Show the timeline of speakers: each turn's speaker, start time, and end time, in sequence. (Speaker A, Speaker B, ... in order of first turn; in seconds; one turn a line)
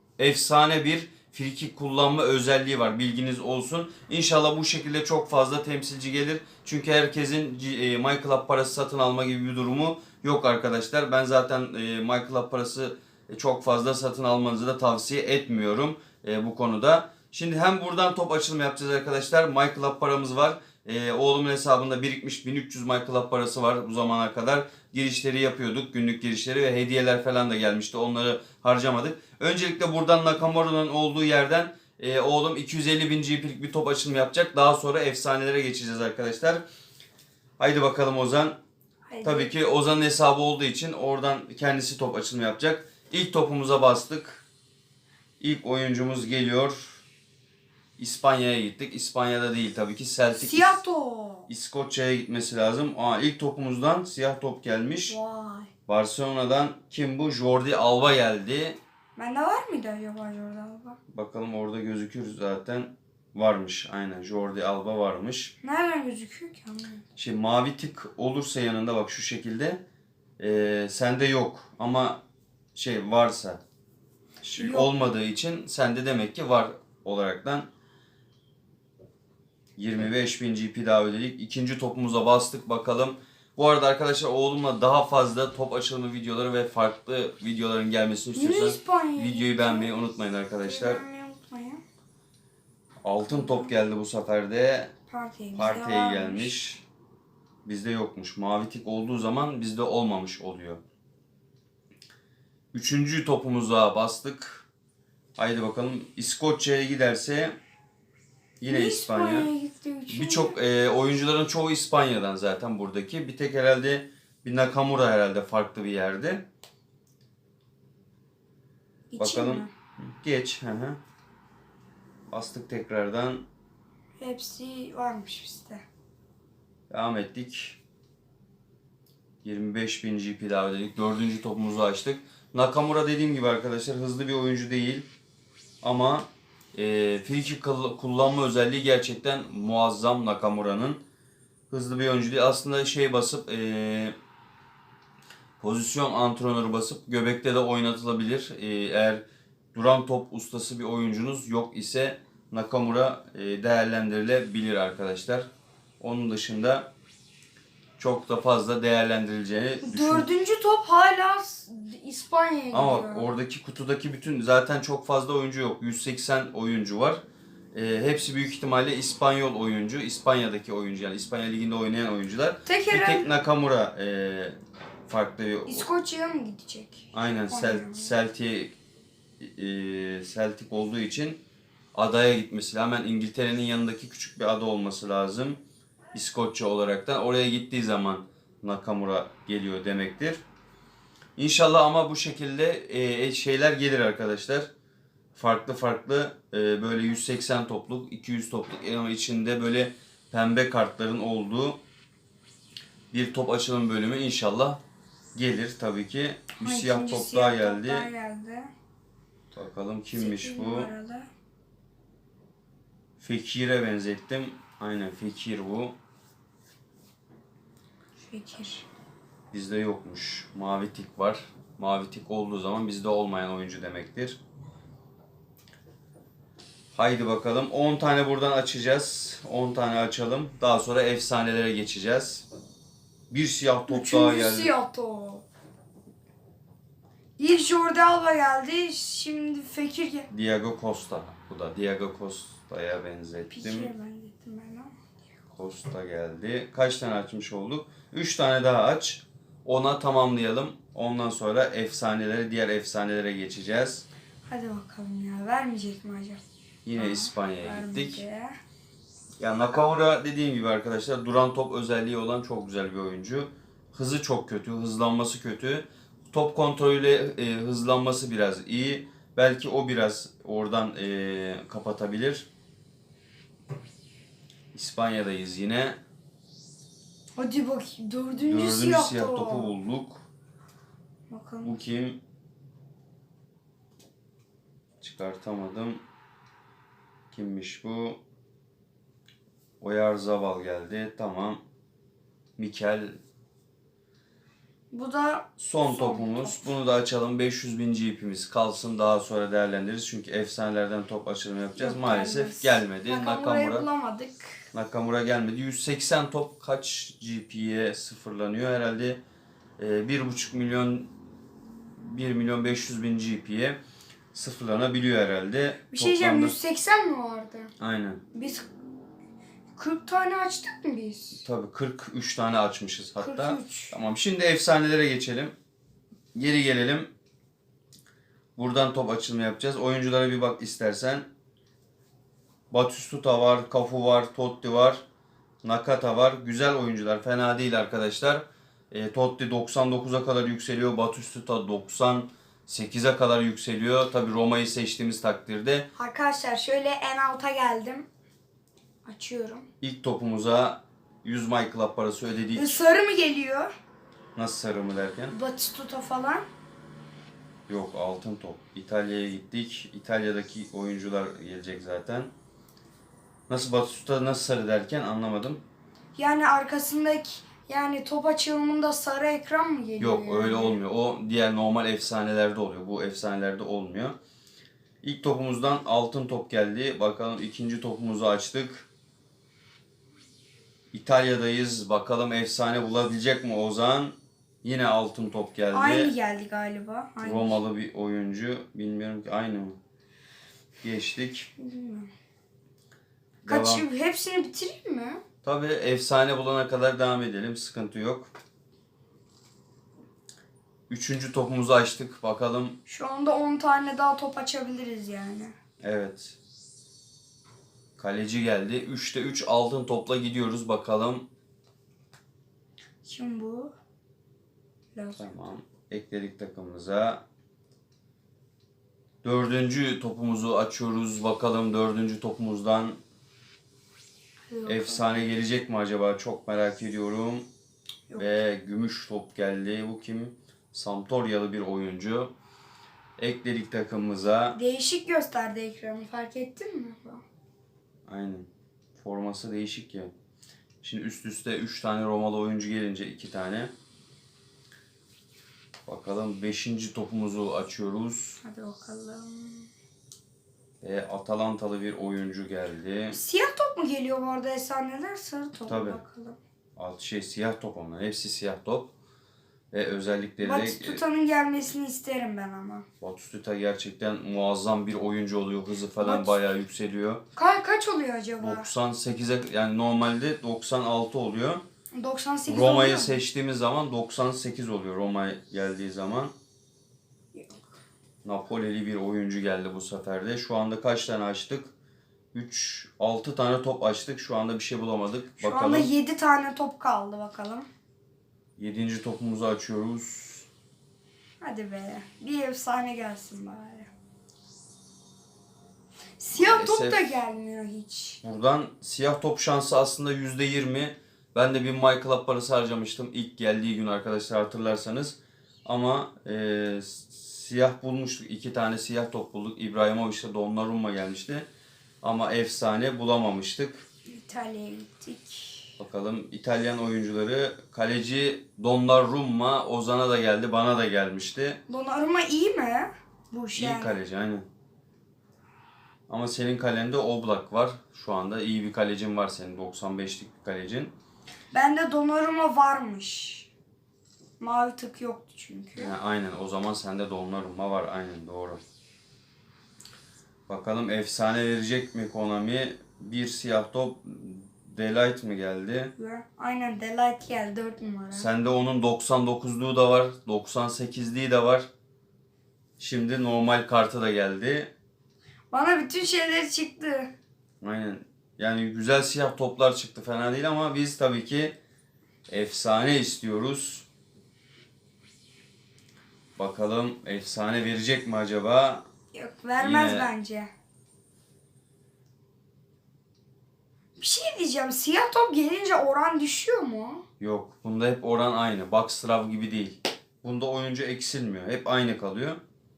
Speaker A: 0.2-36.6
Speaker A: 37.6-38.6
Speaker B: 39.1-39.5
Speaker A: 39.2-44.4
Speaker A: 45.4-47.0
Speaker A: 48.0-50.8
Speaker B: 50.3-51.5
Speaker A: 51.5-55.2
Speaker B: 55.1-55.7
Speaker A: 55.9-58.8
Speaker B: 59.2-61.0
Speaker A: 61.1-65.5
Speaker B: 65.6-67.0
Speaker A: 67.2-69.8
Speaker A: 70.4-72.2
Speaker A: 72.8-73.6
Speaker A: 74.4-77.7
Speaker B: 74.6-74.9
Speaker A: 79.8-91.0
Speaker B: 88.3-89.9
Speaker B: 90.7-91.8
Speaker A: 93.0-94.9
Speaker B: 93.3-93.7
Speaker B: 95.1-96.5
Speaker A: 95.5-96.8
Speaker A: 97.7-100.8
Speaker A: 102.7-104.7
Speaker A: 105.4-107.6
Speaker A: 108.6-109.5
Speaker B: 108.7-110.5
Speaker A: 110.1-116.4
Speaker B: 119.1-119.7
Speaker A: 119.2-121.0
Speaker A: 122.3-123.5
Speaker B: 124.2-125.8
Speaker A: 126.9-127.8
Speaker A: 129.4-135.1
Speaker A: 135.8-141.0
Speaker A: 141.7-144.2
Speaker A: 145.6-149.2
Speaker A: 149.7-155.5
Speaker A: 156.0-156.9
Speaker A: 158.0-160.3
Speaker B: 159.8-163.3
Speaker A: 162.7-167.2
Speaker A: 167.7-175.8
Speaker B: 172.7-173.3
Speaker B: 175.7-178.1
Speaker A: 177.1-178.8
Speaker A: 179.4-181.4
Speaker A: 181.9-185.6
Speaker A: 186.1-190.4
Speaker A: 191.4-194.7
Speaker A: 195.3-201.8
Speaker A: 203.1-204.8
Speaker A: 205.3-208.1
Speaker B: 206.6-208.7
Speaker A: 209.5-210.9
Speaker B: 210.2-211.3
Speaker A: 213.2-215.9
Speaker B: 218.2-218.9
Speaker A: 219.5-224.4
Speaker A: 226.9-232.4
Speaker A: 233.3-234.7
Speaker B: 233.9-235.4
Speaker B: 237.4-240.3
Speaker A: 240.3-243.9
Speaker B: 243.5-244.9
Speaker A: 245.5-254.1
Speaker B: 254.5-256.4
Speaker A: 256.9-258.2
Speaker B: 257.0-258.6
Speaker A: 259.4-272.5
Speaker A: 274.7-276.0
Speaker B: 277.4-279.7
Speaker A: 278.4-280.2
Speaker B: 281.3-281.8
Speaker A: 281.6-282.2
Speaker A: 285.0-286.0
Speaker A: 287.3-288.2
Speaker A: 289.8-291.6
Speaker A: 292.6-293.2
Speaker B: 294.9-296.7
Speaker A: 295.6-303.9
Speaker B: 301.8-304.6
Speaker A: 304.7-309.2
Speaker A: 309.8-311.1
Speaker A: 312.0-313.8
Speaker A: 314.3-316.6
Speaker B: 315.9-317.7
Speaker A: 317.8-318.2
Speaker B: 318.3-318.7
Speaker B: 319.8-321.4
Speaker A: 321.4-325.5
Speaker B: 323.2-323.9
Speaker A: 326.4-327.1
Speaker A: 328.6-331.3
Speaker A: 332.7-335.0
Speaker A: 335.6-345.9
Speaker B: 346.0-348.1
Speaker B: 349.1-349.6
Speaker A: 349.8-352.8
Speaker B: 352.6-353.7
Speaker A: 354.4-355.4
Speaker B: 355.3-356.5
Speaker A: 357.7-362.3
Speaker A: 363.5-365.6
Speaker B: 366.2-370.8
Speaker A: 370.0-374.2
Speaker A: 375.0-378.9
Speaker A: 380.9-386.1
Speaker B: 385.7-387.6
Speaker A: 387.2-389.8
Speaker A: 390.8-391.5
Speaker B: 391.6-392.1
Speaker A: 393.4-393.9
Speaker B: 393.5-395.2
Speaker A: 395.4-398.3
Speaker A: 400.9-402.8
Speaker B: 402.9-405.5
Speaker A: 405.8-406.4
Speaker A: 408.0-411.2
Speaker B: 413.0-413.7
Speaker B: 414.9-415.4
Speaker A: 415.2-417.2
Speaker A: 419.2-423.0
Speaker B: 424.5-425.3
Speaker A: 424.7-427.4
Speaker B: 428.1-428.4
Speaker A: 428.2-432.3
Speaker A: 433.2-434.6
Speaker B: 434.6-437.2
Speaker A: 438.1-440.1
Speaker A: 440.8-443.7
Speaker A: 445.9-448.4
Speaker B: 448.4-449.7
Speaker A: 450.8-453.2
Speaker B: 453.1-456.4
Speaker A: 455.7-456.0
Speaker A: 456.8-458.9
Speaker A: 459.7-461.0
Speaker B: 460.4-462.9
Speaker A: 463.0-467.2
Speaker B: 466.0-466.5
Speaker B: 467.3-468.7
Speaker A: 468.4-471.6
Speaker B: 471.9-473.2
Speaker A: 472.5-476.3
Speaker B: 477.3-477.6
Speaker A: 478.2-481.7
Speaker A: 482.3-485.9
Speaker B: 485.4-487.7
Speaker A: 488.6-490.5
Speaker B: 491.4-493.9
Speaker B: 496.2-498.2
Speaker A: 496.4-497.0
Speaker A: 498.2-511.5
Speaker A: 512.0-513.9
Speaker B: 514.1-515.7
Speaker A: 515.8-521.6
Speaker B: 521.7-523.9
Speaker A: 523.6-524.5
Speaker A: 526.1-530.9
Speaker B: 531.5-533.5
Speaker B: 534.4-535.9
Speaker A: 535.8-538.6
Speaker A: 540.5-545.9
Speaker B: 546.0-548.3
Speaker A: 548.1-551.7
Speaker A: 552.8-554.7
Speaker B: 555.5-557.1
Speaker A: 557.6-561.5
Speaker A: 562.3-563.9
Speaker A: 566.4-568.8
Speaker B: 569.1-570.5
Speaker A: 569.6-570.1
Speaker B: 574.0-577.0
Speaker A: 577.2-582.4